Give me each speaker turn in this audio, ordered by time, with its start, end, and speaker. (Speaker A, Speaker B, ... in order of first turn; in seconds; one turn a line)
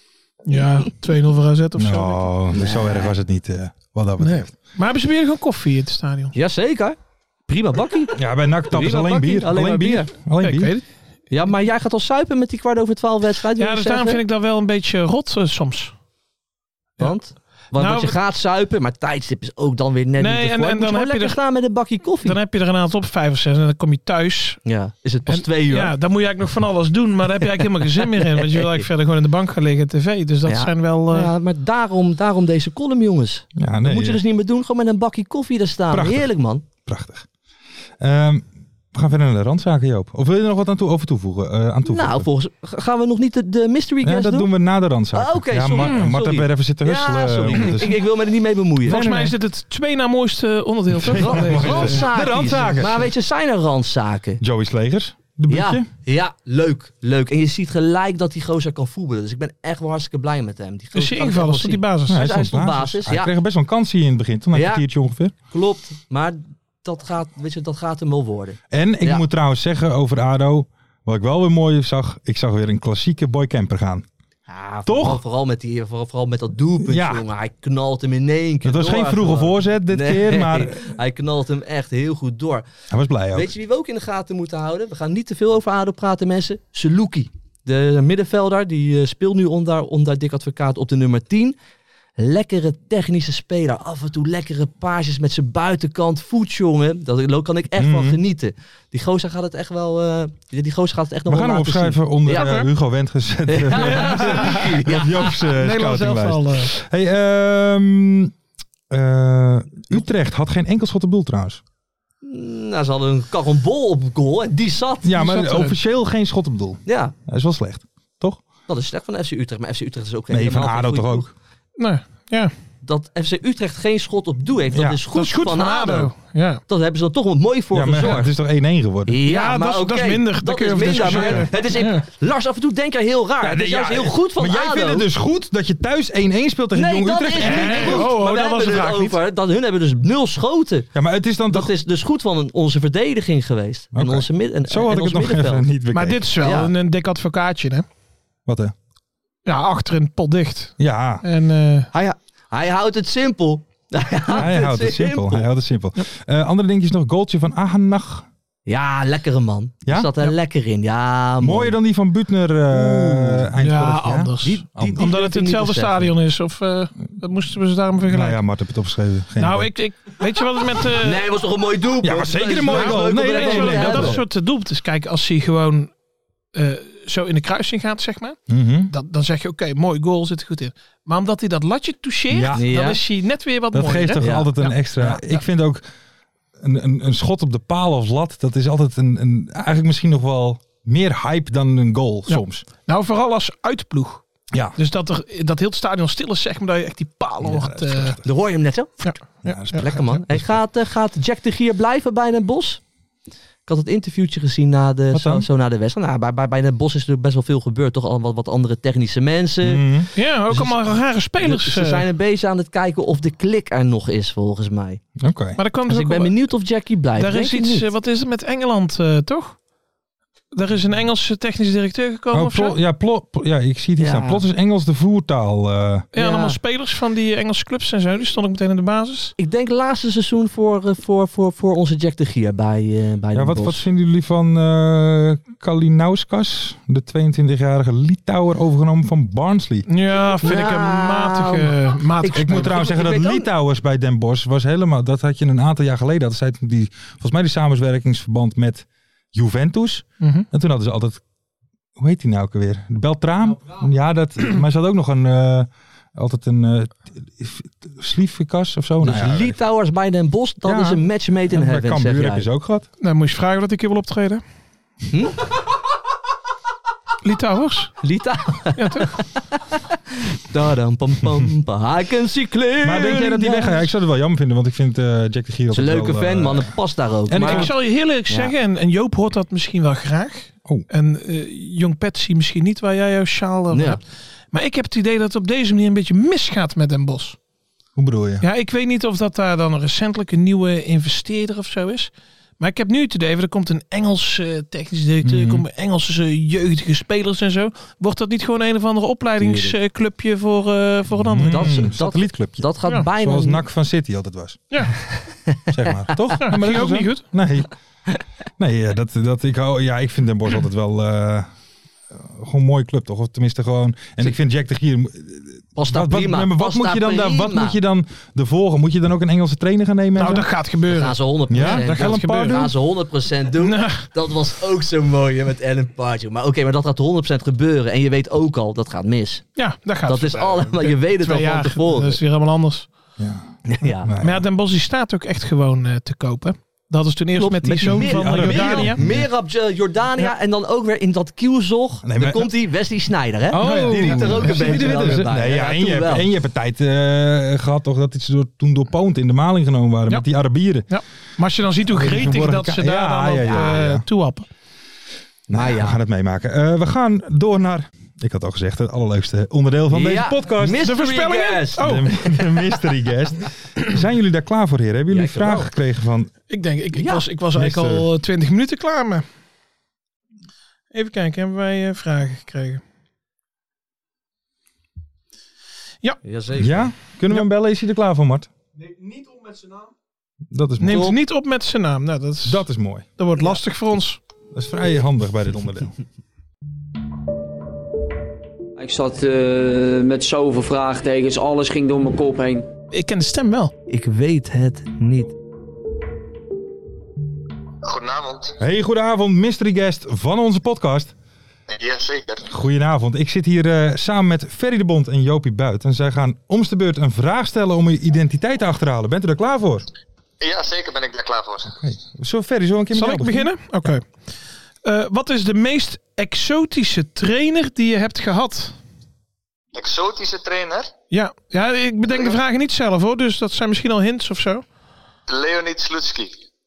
Speaker A: 0.5-2.3
Speaker B: 1.8-4.5
Speaker C: 2.5-3.1
Speaker A: 4.2-6.3
Speaker C: 6.3-8.2
Speaker B: 8.2-10.7
Speaker C: 8.7-10.1
Speaker A: 10.4-10.8
Speaker C: 11.3-14.2
Speaker A: 13.6-15.9
Speaker C: 17.0-22.4
Speaker A: 17.8-18.2
Speaker A: 20.2-21.4
Speaker A: 22.2-24.6
Speaker C: 24.6-25.9
Speaker A: 25.3-31.3
Speaker C: 28.0-28.8
Speaker C: 30.5-36.6
Speaker B: 33.6-34.2
Speaker B: 35.9-37.3
Speaker B: 38.0-42.3
Speaker C: 41.9-44.5
Speaker B: 44.0-48.0
Speaker C: 45.1-49.0
Speaker A: 45.8-46.2
Speaker B: 48.9-49.4
Speaker A: 48.9-52.0
Speaker B: 51.0-53.1
Speaker C: 51.1-54.4
Speaker B: 54.4-55.9
Speaker C: 55.5-63.3
Speaker A: 60.9-62.3
Speaker B: 62.1-65.3
Speaker C: 64.5-64.8
Speaker C: 65.5-69.2
Speaker B: 68.7-74.1
Speaker C: 74.5-82.7
Speaker B: 74.9-75.2
Speaker B: 76.8-77.2
Speaker B: 78.6-80.9
Speaker B: 82.9-83.5
Speaker C: 83.3-91.6
Speaker C: 92.2-102.6
Speaker B: 97.8-98.2
Speaker B: 101.3-108.3
Speaker A: 102.3-102.7
Speaker C: 103.5-105.3
Speaker A: 103.8-104.7
Speaker A: 105.4-106.7
Speaker B: 108.9-111.6
Speaker C: 112.2-115.1
Speaker B: 115.0-118.4
Speaker A: 115.2-115.8
Speaker C: 116.9-117.1
Speaker C: 118.7-121.3
Speaker B: 120.3-121.3
Speaker A: 121.8-122.5
Speaker C: 122.8-126.1
Speaker B: 124.7-125.0
Speaker A: 125.1-126.6
Speaker C: 126.7-128.3
Speaker B: 127.7-129.1
Speaker C: 129.1-135.1
Speaker A: 129.2-132.0
Speaker B: 131.1-131.5
Speaker B: 133.4-138.1
Speaker C: 136.7-140.9
Speaker A: 137.4-139.2
Speaker B: 140.9-141.7
Speaker C: 141.5-145.7
Speaker B: 143.9-146.3
Speaker A: 145.9-147.8
Speaker C: 146.4-146.7
Speaker B: 148.5-148.8
Speaker A: 149.4-151.9
Speaker B: 150.8-151.2
Speaker C: 151.9-155.5
Speaker B: 154.3-158.3
Speaker C: 158.7-161.8
Speaker B: 159.9-160.1
Speaker B: 161.4-165.1
Speaker C: 162.7-163.5
Speaker A: 163.6-168.4
Speaker C: 164.4-166.1
Speaker B: 168.1-169.7
Speaker A: 169.4-171.3
Speaker C: 171.0-174.2
Speaker B: 172.0-174.2
Speaker A: 172.7-175.9
Speaker A: 176.5-185.3
Speaker B: 178.5-178.9
Speaker B: 182.3-182.7
Speaker C: 182.6-183.0
Speaker B: 183.7-185.8
Speaker C: 184.2-184.5
Speaker B: 186.6-192.6
Speaker A: 192.3-194.2
Speaker A: 194.8-198.2
Speaker B: 197.4-198.2
Speaker C: 198.2-199.2
Speaker A: 199.0-200.2
Speaker B: 199.4-200.6
Speaker C: 199.7-202.8
Speaker C: 203.7-209.8
Speaker B: 205.1-205.4
Speaker B: 209.6-210.1
Speaker A: 210.2-212.1
Speaker C: 210.5-210.8
Speaker C: 211.4-215.0
Speaker B: 215.2-215.6
Speaker A: 215.6-216.3
Speaker C: 215.9-217.9
Speaker A: 217.2-219.6
Speaker A: 220.5-222.8
Speaker B: 222.3-226.1
Speaker C: 224.0-224.4
Speaker A: 226.1-229.3
Speaker C: 226.2-226.6
Speaker C: 229.4-233.8
Speaker B: 233.3-239.9
Speaker A: 239.9-242.7
Speaker C: 240.4-243.5
Speaker B: 242.3-251.2
Speaker A: 250.2-250.5
Speaker B: 252.0-259.6
Speaker C: 259.0-262.5
Speaker B: 260.6-262.9
Speaker A: 263.0-264.4
Speaker C: 265.1-265.4
Speaker A: 267.2-267.9
Speaker C: 268.0-273.8
Speaker A: 268.8-269.2
Speaker B: 272.8-276.8
Speaker C: 275.7-277.7
Speaker B: 277.3-277.7
Speaker A: 277.4-287.4
Speaker C: 278.3-278.5
Speaker C: 283.7-284.0
Speaker B: 287.9-288.4
Speaker A: 288.4-301.8
Speaker B: 295.2-295.6
Speaker C: 299.4-299.8
Speaker B: 301.1-304.6
Speaker C: 301.4-303.6
Speaker B: 305.7-307.7
Speaker A: 306.4-307.3
Speaker B: 308.6-311.5
Speaker B: 312.1-320.5
Speaker C: 315.8-317.8
Speaker A: 320.1-322.7
Speaker C: 320.9-329.5
Speaker B: 321.5-322.7
Speaker A: 323.6-324.0
Speaker A: 329.6-332.9
Speaker C: 330.1-332.2
Speaker B: 333.2-334.4
Speaker C: 333.7-334.1
Speaker A: 334.2-339.0
Speaker C: 337.4-346.3
Speaker B: 337.8-339.2
Speaker B: 342.0-342.5
Speaker A: 343.5-345.2
Speaker B: 343.5-350.9
Speaker A: 350.9-354.5
Speaker B: 351.9-354.0
Speaker B: 355.5-360.9
Speaker C: 355.5-356.0
Speaker C: 359.9-362.0
Speaker A: 360.8-362.1
Speaker B: 361.8-366.3
Speaker C: 365.1-365.7
Speaker A: 366.5-369.2
Speaker C: 366.9-367.2
Speaker B: 367.5-368.1
Speaker A: 370.9-372.8
Speaker C: 376.2-376.9
Speaker B: 376.6-378.5
Speaker B: 380.5-381.1
Speaker A: 380.8-382.6
Speaker B: 382.4-383.1
Speaker A: 383.2-384.2
Speaker B: 384.5-385.9
Speaker D: 388.8-392.7
Speaker A: 392.9-393.7
Speaker C: 393.9-395.4
Speaker E: 397.8-398.6
Speaker B: 398.6-401.1
Speaker E: 401.7-402.5
Speaker B: 402.5-409.9
Speaker E: 410.4-411.7
Speaker B: 411.7-413.9
Speaker A: 412.9-414.1
Speaker A: 414.8-418.8
Speaker E: 419.7-420.9
Speaker A: 421.1-424.6
Speaker E: 425.3-426.4